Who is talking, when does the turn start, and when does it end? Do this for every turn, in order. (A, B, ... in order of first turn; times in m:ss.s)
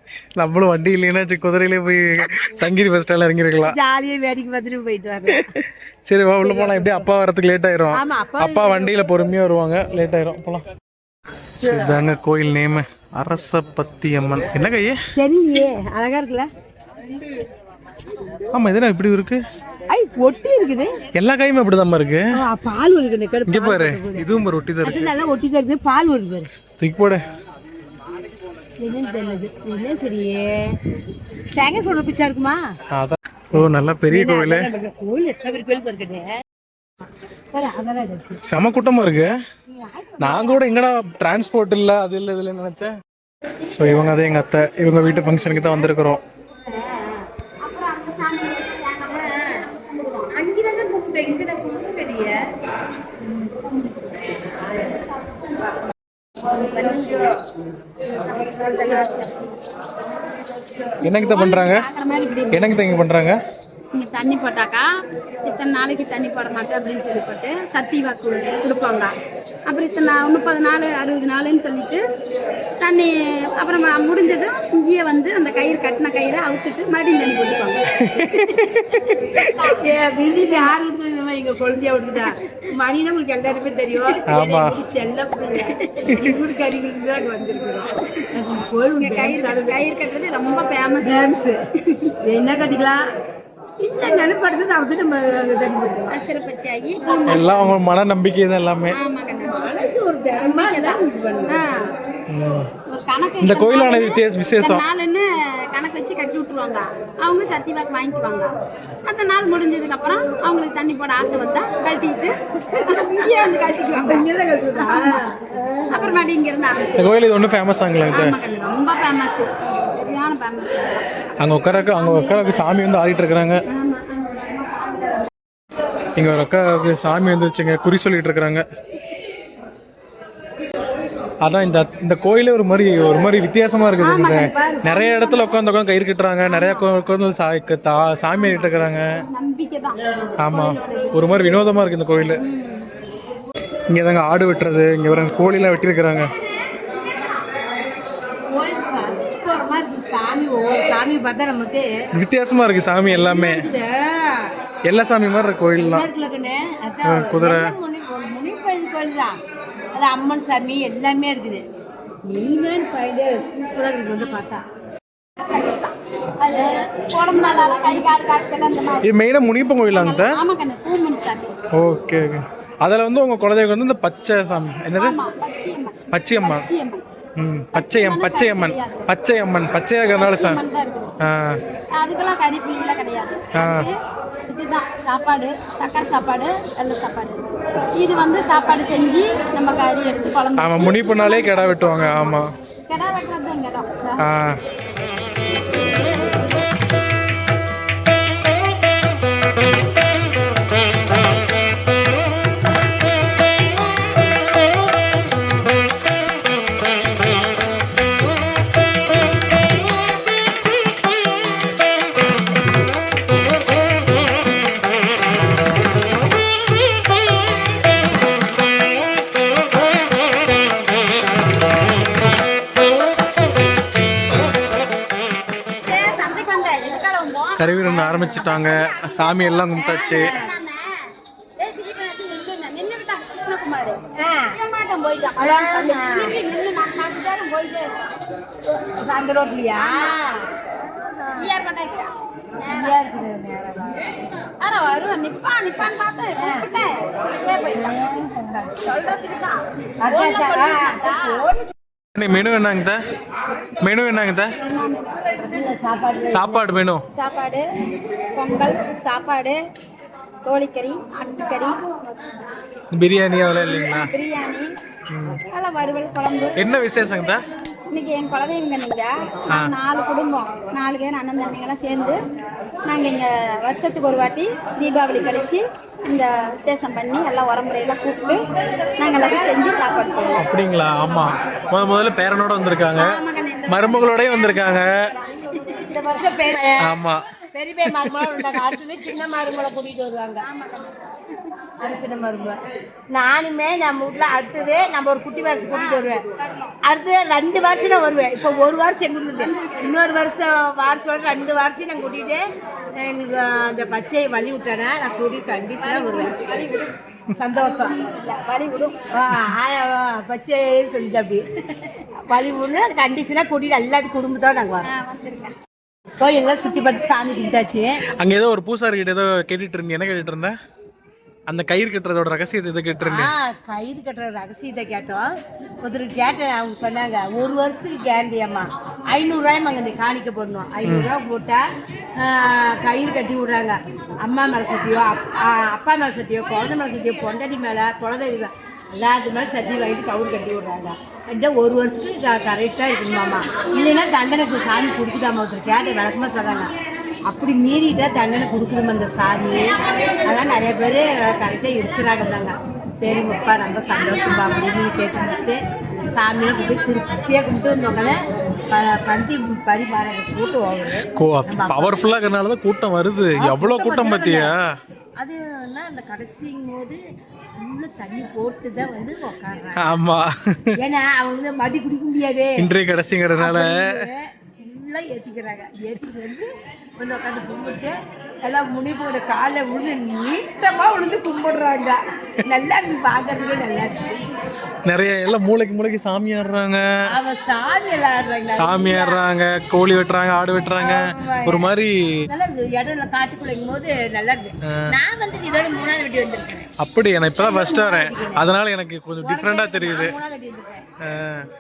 0:00.4-0:03.8 A
0:03.6-0:05.5 B
0:06.1-0:10.6 A
0:06.4-0:06.9 B
0:07.9-0:09.0 B
0:11.6-0:15.0 A
0:15.2-0:16.5 B
0:18.5-0:19.4 A
0:19.9-0:20.9 B
0:21.2-0:22.3 A
0:22.4-0:24.3 B
0:23.5-0:25.2 A
0:24.8-0:26.5 B
0:26.8-0:27.2 A
0:28.8-0:30.7 B
0:31.5-0:32.6 B
0:32.9-0:34.7 A
0:34.1-0:36.3 B
0:37.5-0:38.4 B
0:38.4-0:39.3 A
0:39.7-0:40.6 B
0:40.2-0:42.9 A
0:43.7-0:46.2 A
0:46.9-0:47.2 B
0:47.6-0:50.3 C
0:49.1-0:49.6 B
0:50.3-0:52.4 B
0:56.7-0:57.3 B
0:58.4-0:59.2 B
1:01.0-1:01.9 A
1:01.2-1:02.7 C
1:02.5-1:03.4 A
1:03.9-1:04.9 C
1:05.4-1:09.1 C
1:09.7-1:12.0 C
1:12.8-1:18.6 C
1:18.0-1:19.0 A
1:19.5-1:29.8 B
1:24.3-1:24.8 A
1:25.8-1:26.1 C
1:29.0-1:31.2 C
1:31.0-1:33.0 B
1:33.8-1:36.2 B
1:36.1-1:37.6 C
1:37.3-1:39.0 A
1:38.9-1:39.7 C
1:39.5-1:41.6 B
1:40.4-1:41.9 C
1:42.3-1:42.7 A
1:42.9-1:48.5 C
1:43.4-1:44.8 A
1:49.0-1:55.3 C
1:52.7-1:56.2 B
1:55.9-1:57.1 C
1:57.0-1:58.4 A
1:58.1-2:01.1 C
2:01.4-2:03.6 A
2:01.9-2:02.8 C
2:03.7-2:05.3 C
2:06.2-2:08.6 A
2:11.4-2:19.1 A
2:14.0-2:15.6 C
2:16.4-2:16.9 C
2:18.4-2:21.6 C
2:20.4-2:22.4 A
2:22.2-2:22.9 C
2:23.9-2:26.3 A
2:28.5-2:31.9 B
2:32.2-2:33.7 A
2:33.1-2:34.5 B
2:34.9-2:36.1 A
2:35.8-2:39.3 B
2:37.0-2:37.8 A
2:40.0-2:41.6 B
2:42.2-2:44.6 B
2:46.4-2:49.1 C
2:47.5-2:47.8 B
2:49.0-2:50.4 A
2:49.9-2:51.6 C
2:51.7-2:55.2 A
2:55.0-2:57.0 C
2:56.1-2:56.7 A
2:57.4-3:00.6 A
2:57.7-2:59.1 C
3:00.1-3:01.1 C
3:01.2-3:01.6 A
3:02.0-3:14.2 C
3:03.5-3:03.9 A
3:10.6-3:12.5 A
3:14.2-3:14.6 A
3:45.8-3:58.1 C
3:47.6-3:50.4 A
3:50.1-3:50.5 B
3:54.2-3:54.6 B
3:55.4-3:56.3 B
3:58.7-4:00.4 B
3:59.8-4:00.2 C
4:01.2-4:01.5 B
4:01.4-4:02.1 C
4:02.6-4:04.0 B
4:04.6-4:08.2 C
4:06.4-4:06.7 B
4:07.7-4:08.8 B
4:08.7-4:11.5 C
4:10.0-4:11.6 B
4:12.2-4:13.0 A
4:13.8-4:14.5 A
4:14.6-4:15.2 C
4:15.4-4:16.6 B
4:16.3-4:17.0 A
4:17.1-4:17.6 C
4:18.3-4:19.6 C
4:20.4-4:21.8 C
4:22.9-4:24.1 A
4:23.8-4:24.8 C
4:25.1-4:25.4 A
4:25.5-4:26.6 C
4:26.6-4:27.4 A
4:27.9-4:32.2 C
4:32.9-4:38.4 C
4:39.0-4:40.4 C
4:40.4-4:43.2 A
4:43.0-4:46.0 C
4:43.7-4:45.0 A
4:45.9-4:47.0 B
4:46.8-4:47.2 A
4:47.5-4:50.5 B
4:48.0-4:48.6 A
4:50.4-4:51.4 C
4:51.8-4:52.6 B
4:53.1-4:56.3 B
4:55.7-4:56.8 C
4:56.8-5:02.4 B
4:59.4-4:59.8 C
5:03.0-5:06.4 B
5:05.8-5:09.0 C
5:07.3-5:08.0 B
5:09.1-5:11.4 B
5:12.2-5:14.9 B
5:14.8-5:15.5 C
5:16.2-5:18.0 B
5:18.1-5:20.5 A
5:21.5-5:23.3 A
5:23.0-5:25.2 B
5:25.8-5:31.6 B
5:30.8-5:31.1 A
5:32.2-5:46.7 B
5:47.3-5:58.2 B
5:58.7-6:02.0 B
6:01.2-6:04.7 A
6:03.4-6:04.5 B
6:05.2-6:07.0 B
6:07.6-6:09.9 B
6:09.8-6:10.8 A
6:10.8-6:12.7 B
6:12.6-6:14.1 A
6:13.4-6:24.2 B
6:24.9-6:26.8 A
6:27.1-6:29.2 B
6:28.5-6:32.1 A
6:30.8-6:31.6 B
6:32.3-6:36.7 B
6:36.8-6:40.1 A
6:37.4-6:38.4 B
6:39.2-6:40.8 B
6:41.0-6:41.5 A